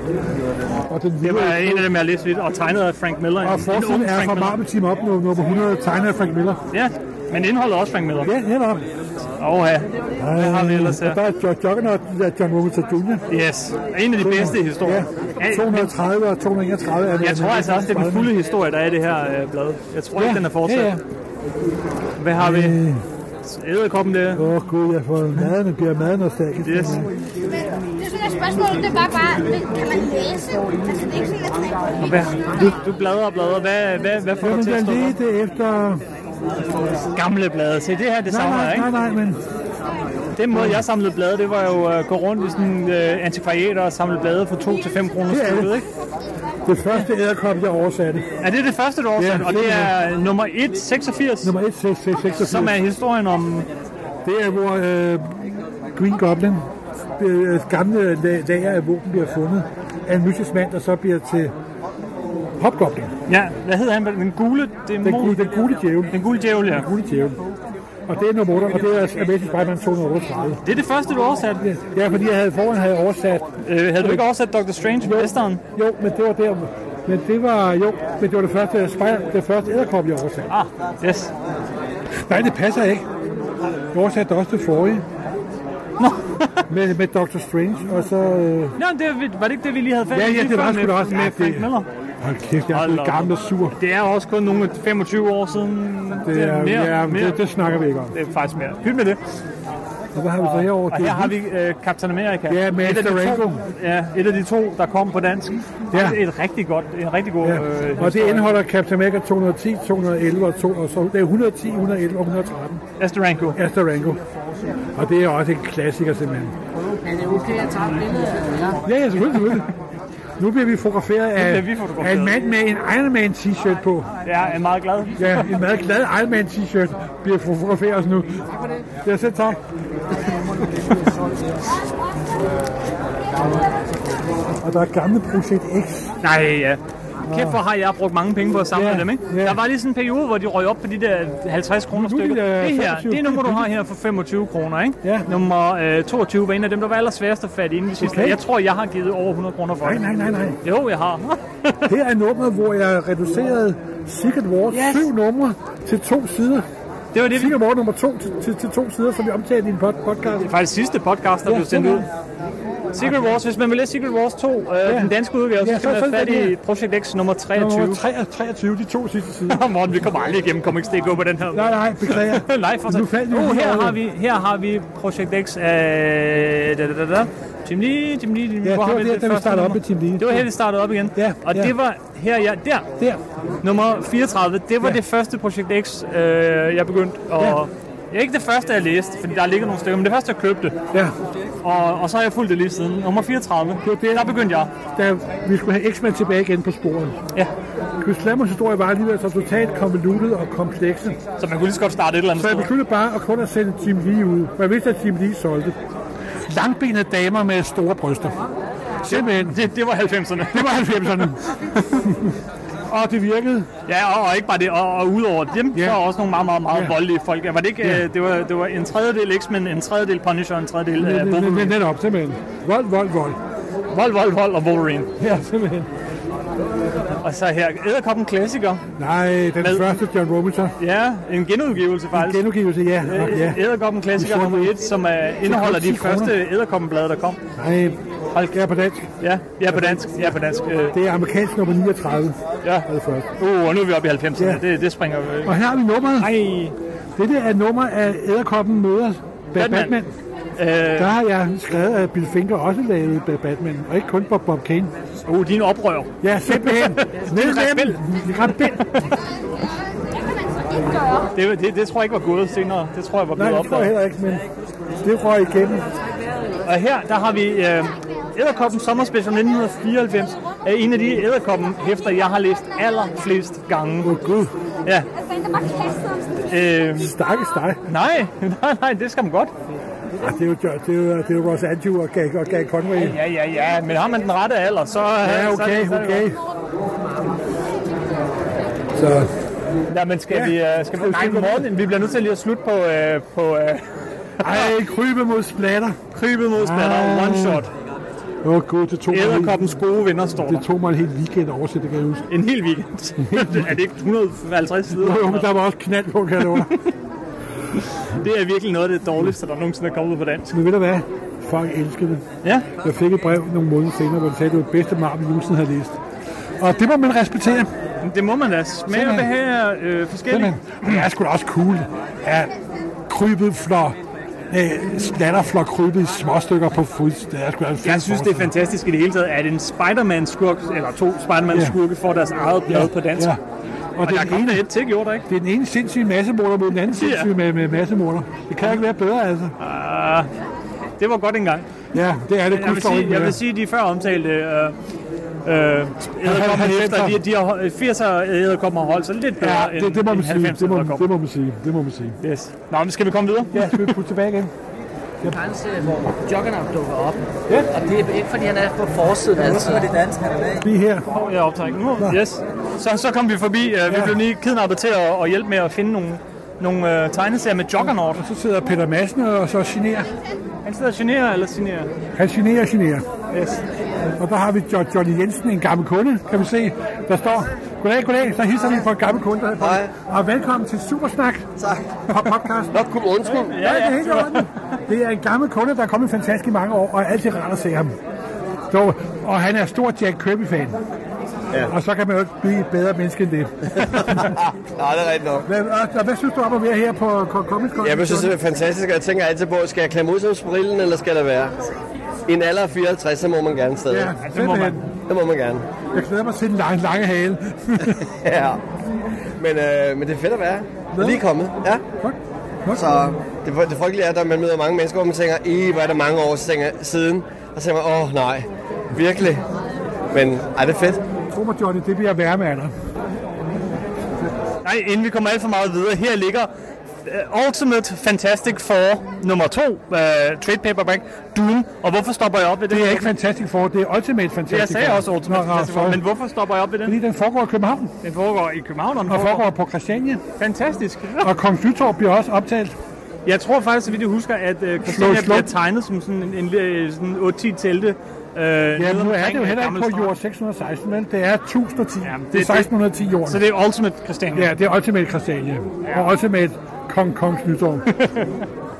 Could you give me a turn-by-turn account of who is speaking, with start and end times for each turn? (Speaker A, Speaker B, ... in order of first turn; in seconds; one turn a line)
Speaker A: 0.9-1.9
Speaker B: 1.2-4.6
Speaker A: 3.4-6.6
Speaker B: 6.7-8.3
Speaker A: 8.2-8.9
Speaker B: 9.4-11.2
Speaker A: 10.2-13.2
Speaker B: 13.3-15.9
Speaker A: 14.2-18.3
Speaker B: 17.2-20.9
Speaker A: 20.1-21.0
Speaker B: 22.2-22.8
Speaker A: 22.3-23.0
Speaker B: 23.4-24.5
Speaker A: 24.3-27.1
Speaker B: 26.6-27.1
Speaker C: 27.5-32.3
Speaker B: 32.0-35.1
Speaker A: 34.4-36.0
Speaker B: 37.1-38.9
Speaker A: 38.3-39.4
Speaker B: 40.3-45.8
Speaker A: 40.5-40.8
Speaker A: 45.3-45.8
Speaker A: 46.6-48.3
Speaker B: 48.4-51.5
Speaker A: 49.1-50.0
Speaker A: 51.4-52.8
Speaker B: 52.3-53.7
Speaker A: 54.2-61.5
Speaker A: 62.6-63.1
Speaker B: 63.3-65.5
Speaker A: 65.0-67.4
Speaker B: 66.1-66.9
Speaker A: 68.1-70.6
Speaker B: 70.6-71.6
Speaker A: 71.6-74.3
Speaker B: 73.6-75.6
Speaker A: 75.0-80.5
Speaker B: 80.5-81.3
Speaker A: 82.2-83.1
Speaker A: 83.9-85.0
Speaker B: 86.0-86.6
Speaker A: 86.7-88.8
Speaker B: 88.8-91.9
Speaker A: 90.1-93.8
Speaker B: 92.7-97.4
Speaker A: 96.2-98.1
Speaker B: 98.1-99.2
Speaker A: 100.1-101.4
Speaker B: 100.4-108.5
Speaker A: 102.5-103.6
Speaker A: 105.9-106.2
Speaker A: 107.4-112.8
Speaker B: 113.0-113.6
Speaker A: 113.5-114.2
Speaker A: 114.9-116.6
Speaker D: 117.2-118.7
Speaker A: 118.8-119.7
Speaker A: 120.4-124.1
Speaker B: 121.3-122.5
Speaker B: 124.2-125.5
Speaker A: 125.2-128.5
Speaker A: 129.0-129.6
Speaker A: 134.6-136.1
Speaker B: 136.2-150.1
Speaker A: 137.3-137.6
Speaker A: 138.7-139.6
Speaker A: 141.9-143.7
Speaker A: 145.0-145.3
Speaker A: 148.0-148.4
Speaker A: 149.8-150.6
Speaker B: 150.6-151.9
Speaker A: 151.8-156.7
Speaker B: 154.7-155.1
Speaker B: 157.1-157.6
Speaker A: 157.2-160.5
Speaker B: 160.4-162.1
Speaker A: 161.4-162.1
Speaker B: 162.9-168.0
Speaker A: 163.0-163.4
Speaker A: 164.8-166.6
Speaker A: 167.5-169.6
Speaker B: 169.5-182.9
Speaker A: 171.5-174.0
Speaker A: 178.6-180.5
Speaker A: 181.1-181.7
Speaker B: 183.6-190.8
Speaker B: 191.6-194.7
Speaker A: 193.8-197.2
Speaker A: 198.0-201.2
Speaker B: 201.4-202.7
Speaker A: 202.3-205.8
Speaker A: 206.4-208.4
Speaker A: 209.0-209.6
Speaker B: 209.0-211.3
Speaker A: 210.5-211.4
Speaker A: 212.0-212.3
Speaker A: 212.9-213.7
Speaker B: 213.8-221.8
Speaker A: 215.7-216.0
Speaker A: 216.7-217.0
Speaker A: 217.8-218.1
Speaker A: 221.0-223.4
Speaker B: 223.9-225.1
Speaker A: 225.2-225.9
Speaker B: 227.2-228.9
Speaker A: 229.0-230.8
Speaker B: 229.6-229.9
Speaker B: 230.8-232.5
Speaker A: 232.1-234.8
Speaker B: 233.0-237.4
Speaker A: 235.4-236.4
Speaker A: 237.6-239.1
Speaker B: 239.2-240.9
Speaker A: 239.7-240.3
Speaker A: 240.9-243.3
Speaker B: 243.4-245.6
Speaker A: 244.4-244.6
Speaker A: 245.4-246.4
Speaker B: 246.2-246.7
Speaker A: 247.2-250.1
Speaker B: 249.5-249.9
Speaker B: 250.6-251.1
Speaker A: 250.9-254.9
Speaker B: 255.2-258.0
Speaker A: 256.2-259.1
Speaker B: 258.8-259.1
Speaker B: 261.3-263.9
Speaker A: 263.3-264.4
Speaker A: 265.0-265.9
Speaker B: 266.6-274.1
Speaker A: 274.0-274.5
Speaker C: 275.2-276.4
Speaker B: 276.4-277.1
Speaker A: 276.9-277.8
Speaker B: 277.9-279.5
Speaker A: 280.2-283.2
Speaker B: 282.9-286.3
Speaker A: 285.2-286.4
Speaker A: 288.9-289.3
Speaker B: 289.9-293.8
Speaker A: 290.3-291.7
Speaker B: 294.4-294.7
Speaker A: 294.4-296.0
Speaker B: 296.1-297.7
Speaker A: 296.6-297.6
Speaker A: 298.4-299.8
Speaker B: 299.1-300.6
Speaker A: 300.4-302.3
Speaker B: 302.3-305.5
Speaker A: 303.2-303.7
Speaker A: 304.9-306.8
Speaker B: 306.5-306.9
Speaker B: 308.0-310.5
Speaker A: 310.5-316.0
Speaker B: 312.4-312.7
Speaker A: 316.6-317.7
Speaker B: 318.0-321.0
Speaker A: 318.9-319.3
Speaker A: 320.3-322.5
Speaker A: 323.1-324.0
Speaker A: 324.5-328.6
Speaker B: 327.8-333.3
Speaker A: 331.5-331.8
Speaker A: 332.7-333.4
Speaker A: 333.9-334.7
Speaker B: 334.0-335.3
Speaker A: 335.3-339.5
Speaker B: 336.9-337.3
Speaker B: 339.6-340.3
Speaker B: 341.0-341.7
Speaker A: 341.9-343.4
Speaker B: 342.5-344.8
Speaker B: 345.4-351.1
Speaker A: 346.2-347.2
Speaker A: 349.4-352.2
Speaker B: 352.2-353.9
Speaker A: 353.5-354.5
Speaker D: 355.4-360.6
Speaker A: 360.6-361.1
Speaker B: 361.1-368.2
Speaker A: 363.9-364.2
Speaker A: 367.8-370.1
Speaker B: 370.6-371.9
Speaker A: 372.1-373.1
Speaker B: 373.3-373.6
Speaker A: 374.2-381.5
Speaker E: 379.6-379.9
Speaker E: 381.6-382.0
Speaker A: 382.1-382.8
Speaker E: 382.7-383.5
Speaker B: 383.2-384.5
Speaker A: 383.5-387.9
Speaker A: 388.7-390.8
Speaker A: 391.6-394.3
Speaker E: 393.8-395.5
Speaker A: 395.4-398.4
Speaker E: 397.8-401.6
Speaker E: 402.3-404.1
Speaker A: 403.9-404.9
Speaker B: 404.2-404.8
Speaker E: 405.1-405.6
Speaker A: 405.9-408.1
Speaker E: 408.0-408.6
Speaker E: 409.4-411.8
Speaker A: 410.9-411.2
Speaker A: 412.0-412.9
Speaker E: 412.7-419.4
Speaker E: 420.1-421.0
Speaker A: 421.3-422.7
Speaker B: 424.6-426.5
Speaker B: 427.0-433.1
Speaker A: 432.7-436.0
Speaker B: 434.5-437.0
Speaker A: 436.8-437.9
Speaker B: 438.0-439.5
Speaker A: 439.1-440.2
Speaker B: 440.4-441.3
Speaker A: 441.2-442.8
Speaker B: 443.2-450.1
Speaker A: 444.8-445.5
Speaker A: 448.8-453.5
Speaker B: 452.0-452.7
Speaker B: 453.2-454.5
Speaker A: 454.3-457.9
Speaker B: 455.8-456.1
Speaker B: 457.9-458.4